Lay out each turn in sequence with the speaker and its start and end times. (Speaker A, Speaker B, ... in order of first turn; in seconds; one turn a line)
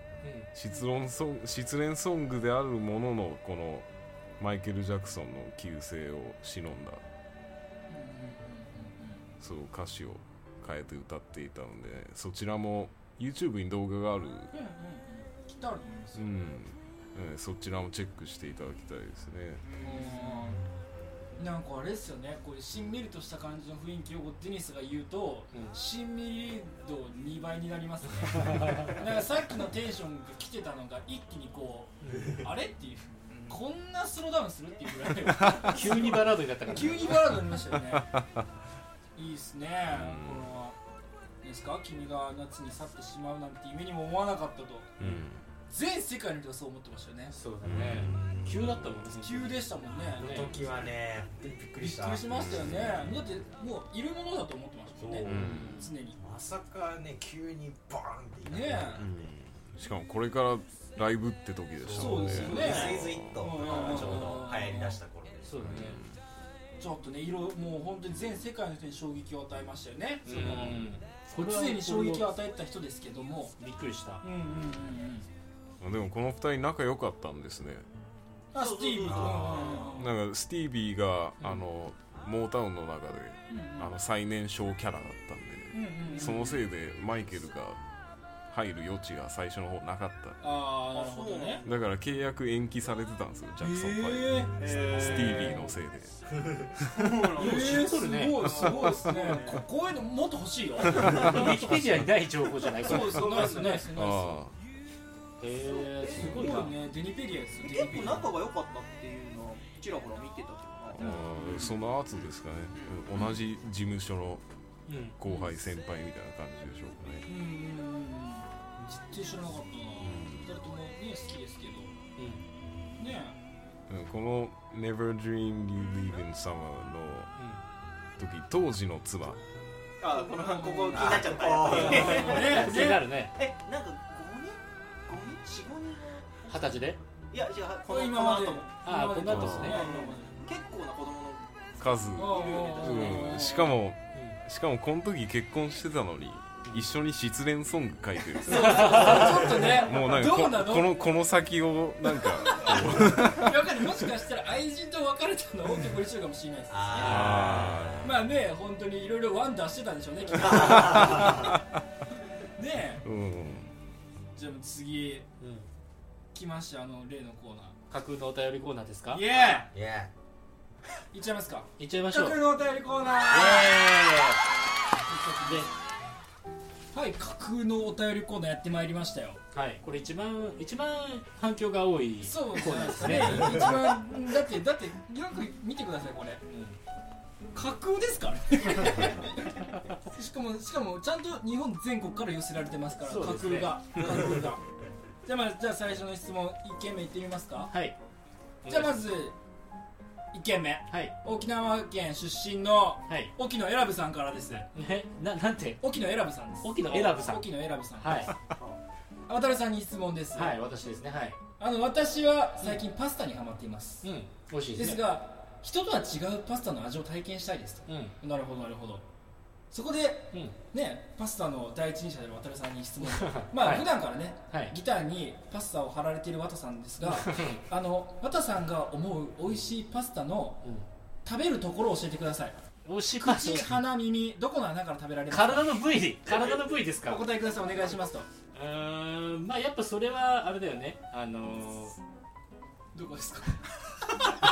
Speaker A: 0.2-0.5
Speaker B: 0.5-3.9
Speaker B: 4.4-7.0
Speaker C: 7.9-9.2
Speaker B: 9.4-14.5
Speaker C: 14.5-16.2
Speaker B: 16.1-19.6
Speaker D: 19.6-20.3
Speaker C: 19.8-20.6
Speaker C: 21.4-38.1
Speaker A: 28.3-28.9
Speaker D: 33.3-33.6
Speaker A: 35.6-37.1
Speaker B: 37.9-38.4
Speaker C: 39.1-40.8
Speaker B: 39.9-40.5
Speaker C: 41.4-45.0
Speaker B: 45.0-45.4
Speaker C: 45.7-47.3
Speaker A: 47.3-50.6
Speaker B: 47.6-48.2
Speaker E: 47.8-48.8
Speaker C: 49.1-50.6
Speaker E: 50.1-52.5
Speaker C: 51.8-56.2
Speaker B: 52.3-53.2
Speaker E: 55.0-55.5
Speaker A: 55.2-55.9
Speaker B: 55.2-55.8
Speaker E: 56.2-59.1
Speaker C: 58.4-59.0
Speaker B: 59.0-63.4
Speaker E: 61.8-65.5
Speaker C: 61.9-65.0
Speaker A: 65.4-66.0
Speaker B: 65.6-66.1
Speaker C: 66.8-70.8
Speaker A: 70.2-72.2
Speaker B: 70.3-70.8
Speaker C: 71.3-73.5
Speaker A: 73.6-74.2
Speaker C: 74.2-75.3
Speaker B: 75.8-77.8
Speaker C: 78.5-80.1
Speaker D: 78.5-80.0
Speaker E: 79.0-79.8
Speaker B: 79.9-87.8
Speaker C: 83.5-83.9
Speaker C: 85.7-86.6
Speaker B: 88.5-90.4
Speaker C: 90.4-91.6
Speaker D: 90.9-91.8
Speaker B: 91.6-96.1
Speaker C: 93.6-94.6
Speaker D: 94.6-95.6
Speaker D: 96.9-99.6
Speaker C: 97.3-101.7
Speaker A: 97.4-99.0
Speaker B: 100.9-101.5
Speaker A: 101.0-103.8
Speaker C: 102.8-104.4
Speaker D: 103.3-103.6
Speaker B: 103.8-104.5
Speaker A: 105.4-106.7
Speaker D: 105.7-106.3
Speaker C: 106.1-108.3
Speaker D: 107.6-111.2
Speaker B: 110.9-114.4
Speaker C: 111.0-111.8
Speaker D: 112.7-113.0
Speaker A: 114.9-115.2
Speaker B: 115.2-117.3
Speaker C: 117.3-121.9
Speaker B: 120.0-120.5
Speaker A: 122.2-122.4
Speaker C: 123.0-123.4
Speaker B: 123.9-127.3
Speaker B: 128.2-129.4
Speaker D: 130.0-132.8
Speaker C: 130.1-133.1
Speaker E: 130.9-132.6
Speaker A: 131.7-133.3
Speaker D: 133.3-136.6
Speaker A: 136.5-137.0
Speaker D: 137.3-138.7
Speaker C: 137.9-140.4
Speaker A: 138.8-139.8
Speaker B: 139.3-139.8
Speaker D: 139.6-143.3
Speaker B: 141.8-153.7
Speaker C: 142.2-143.8
Speaker C: 148.4-150.9
Speaker A: 148.5-149.4
Speaker C: 152.2-157.4
Speaker E: 156.7-158.1
Speaker A: 157.0-157.3
Speaker B: 157.0-158.2
Speaker C: 158.0-161.5
Speaker E: 160.3-161.5
Speaker B: 160.7-161.7
Speaker C: 162.6-163.0
Speaker B: 163.0-163.7
Speaker C: 164.3-165.2
Speaker A: 165.4-165.7
Speaker C: 166.3-167.8
Speaker A: 167.9-169.2
Speaker C: 169.1-169.7
Speaker E: 169.7-170.1
Speaker C: 171.1-173.8
Speaker A: 171.8-172.4
Speaker A: 173.3-174.4
Speaker C: 175.1-175.7
Speaker C: 176.9-179.4
Speaker A: 179.5-183.7
Speaker C: 182.2-186.4
Speaker A: 186.5-186.8
Speaker C: 187.5-194.6
Speaker A: 193.0-194.0
Speaker C: 195.2-197.7
Speaker A: 197.7-197.9
Speaker A: 198.6-199.0
Speaker C: 198.7-199.3
Speaker C: 200.3-204.7
Speaker A: 204.7-205.8
Speaker C: 205.8-208.3
Speaker A: 206.6-208.3
Speaker C: 209.3-210.7
Speaker A: 210.3-211.4
Speaker C: 211.6-214.1
Speaker A: 214.0-215.1
Speaker C: 214.7-219.0
Speaker A: 217.9-218.2
Speaker C: 219.7-230.7
Speaker A: 223.0-223.9
Speaker A: 224.5-224.7
Speaker A: 227.0-227.6
Speaker C: 231.2-232.6
Speaker A: 232.8-233.7
Speaker C: 233.2-235.8
Speaker A: 235.3-237.2
Speaker C: 236.3-238.3
Speaker A: 238.5-241.9
Speaker C: 242.9-243.6